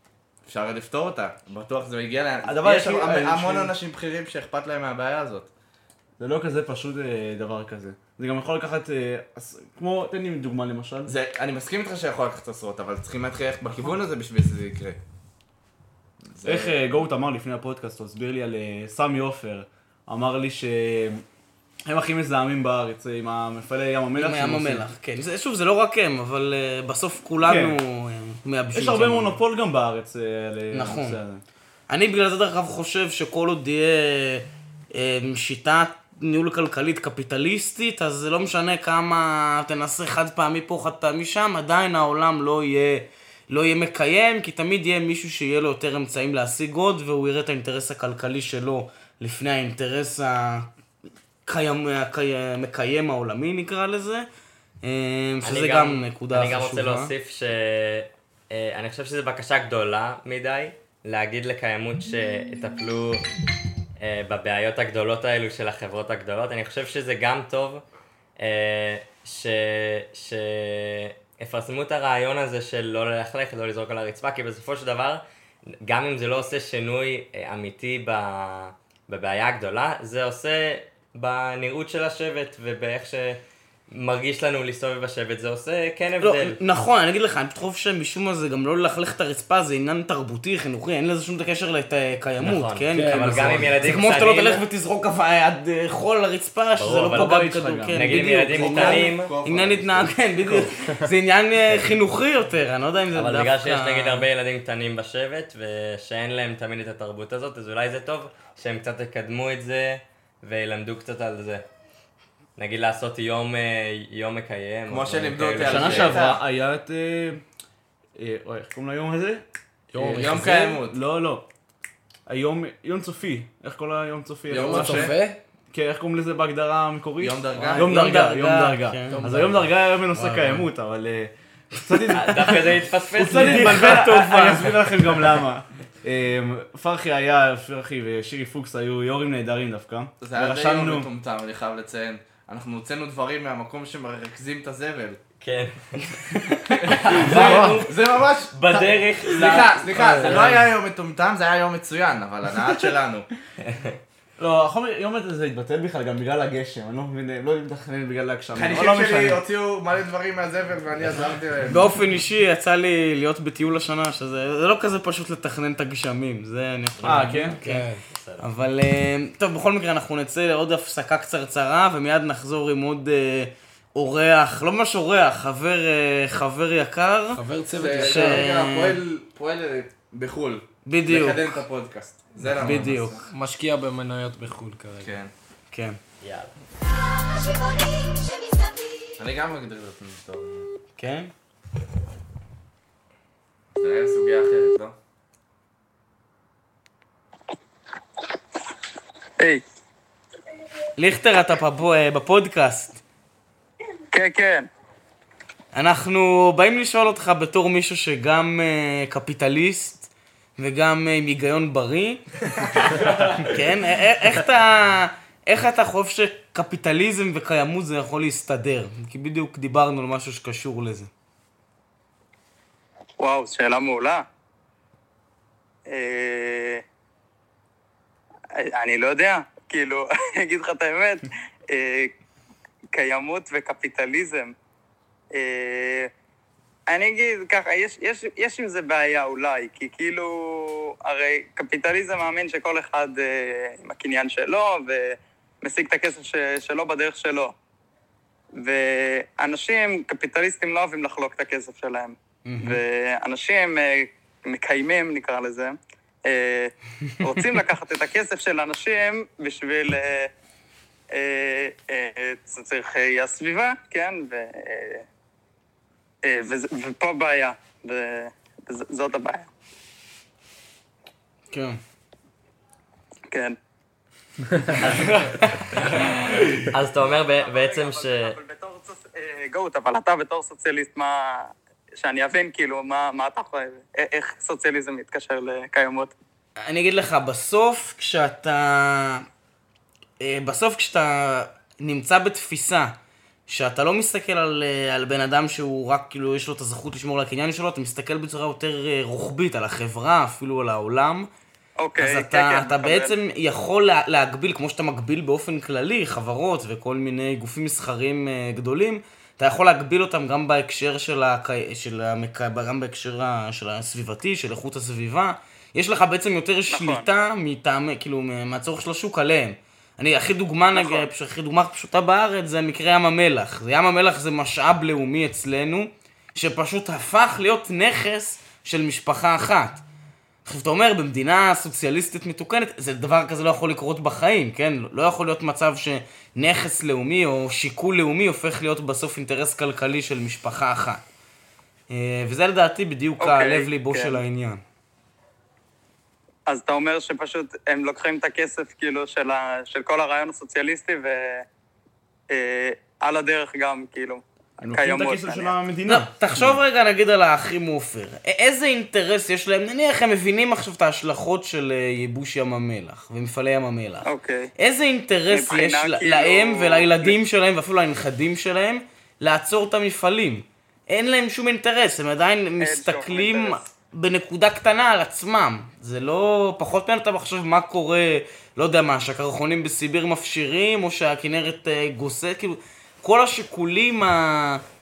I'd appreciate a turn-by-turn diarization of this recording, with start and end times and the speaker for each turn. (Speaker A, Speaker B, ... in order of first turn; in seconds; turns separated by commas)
Speaker A: 0.5-5.5, Speaker B: 2.4-3.7, Speaker B: 6.2-11.1, Speaker A: 11.1-15.0, Speaker A: 16.3-16.8, Speaker B: 16.4-21.2, Speaker B: 21.9-24.9, Speaker C: 24.2-29.4, Speaker B: 27.4-27.8, Speaker B: 28.7-31.4, Speaker C: 30.7-31.2, Speaker C: 31.9-50.7, Speaker C: 51.5-54.2, Speaker C: 54.8-57.1, Speaker D: 55.4-63.3, Speaker D: 64.0-67.8, Speaker D: 68.4-75.2, Speaker D: 75.8-86.6, Speaker C: 86.2-104.2, Speaker D: 92.4-94.7, Speaker E: 92.9-93.8, Speaker D: 96.8-99.3, Speaker B: 97.1-98.3, Speaker A: 98.5-100.7, Speaker D: 103.1-111.6, Speaker D: 112.6-116.2, Speaker A: 114.9-116.4, Speaker B: 115.6-117.4, Speaker C: 115.7-116.2, Speaker B: 118.2-119.4, Speaker E: 119.9-120.8, Speaker A: 120.0-121.0, Speaker B: 120.1-121.5, Speaker B: 122.3-125.2, Speaker A: 124.5-125.2, Speaker E: 124.6-125.4, Speaker B: 125.7-141.1, Speaker A: 127.2-127.9, Speaker C: 127.8-129.3, Speaker E: 129.1-129.7, Speaker C: 130.1-130.6, Speaker D: 132.1-134.1, Speaker C: 133.3-134.7, Speaker A: 140.2-145.2, Speaker D: 145.4-147.9, Speaker E: 147.2-147.8, Speaker A: 147.2-153.3, Speaker C: 147.3-147.8, Speaker C: 148.7-150.4, Speaker D: 148.7-149.7, Speaker E: 149.9-150.5, Speaker D: 153.6-153.9, Speaker B: 154.4-159.4, Speaker A: 158.6-161.9, Speaker C: 161.7-167.8, Speaker D: 167.0-168.5, Speaker B: 167.0-167.6, Speaker E: 167.6-168.0, Speaker C: 168.4-177.4, Speaker E: 177.3-178.5, Speaker A: 177.8-183.2, Speaker C: 178.0-179.0, Speaker C: 180.8-181.6, Speaker C: 182.6-183.2, Speaker E: 183.3-185.1, Speaker A: 185.0-185.3, Speaker C: 185.7-186.0, Speaker D: 186.2-186.5, Speaker A: 189.2-190.7, Speaker C: 191.0-191.3, Speaker A: 193.8-194.9, Speaker C: 200.9-203.0, Speaker F: 204.1-204.7, Speaker C: 205.7-212.4, Speaker C: 213.4-221.1, Speaker F: 223.2-224.2, Speaker F: 225.9-226.8, Speaker F: 228.6-232.1, Speaker F: 232.9-234.5, Speaker F: 235.3-236.1, Speaker F: 236.9-247.5, Speaker F: 248.6-260.3, Speaker C: 252.4-252.8, Speaker F: 261.1-265.0, Speaker F: 266.2-269.5, Speaker C: 271.5-271.8, Speaker F: 273.3-273.6, Speaker D: 274.8-275.1, Speaker E: 274.8-275.4, Speaker D: 276.1-278.4, Speaker F: 277.4-286.1, Speaker C: 286.6-289.2, Speaker C: 290.2-292.9, Speaker C: 293.5-301.3, Speaker F: 301.8-303.1, Speaker C: 302.0-329.8, Speaker F: 316.7-317.1, Speaker F: 320.7-321.1, Speaker C: 330.4-341.0, Speaker C: 341.9-344.6, Speaker F: 343.2-344.2, Speaker F: 346.5-351.4, Speaker F: 352.3-355.5, Speaker B: 354.6-356.6, Speaker C: 355.9-384.6, Speaker F: 364.0-364.5, Speaker F: 365.3-367.1, Speaker F: 372.6-373.7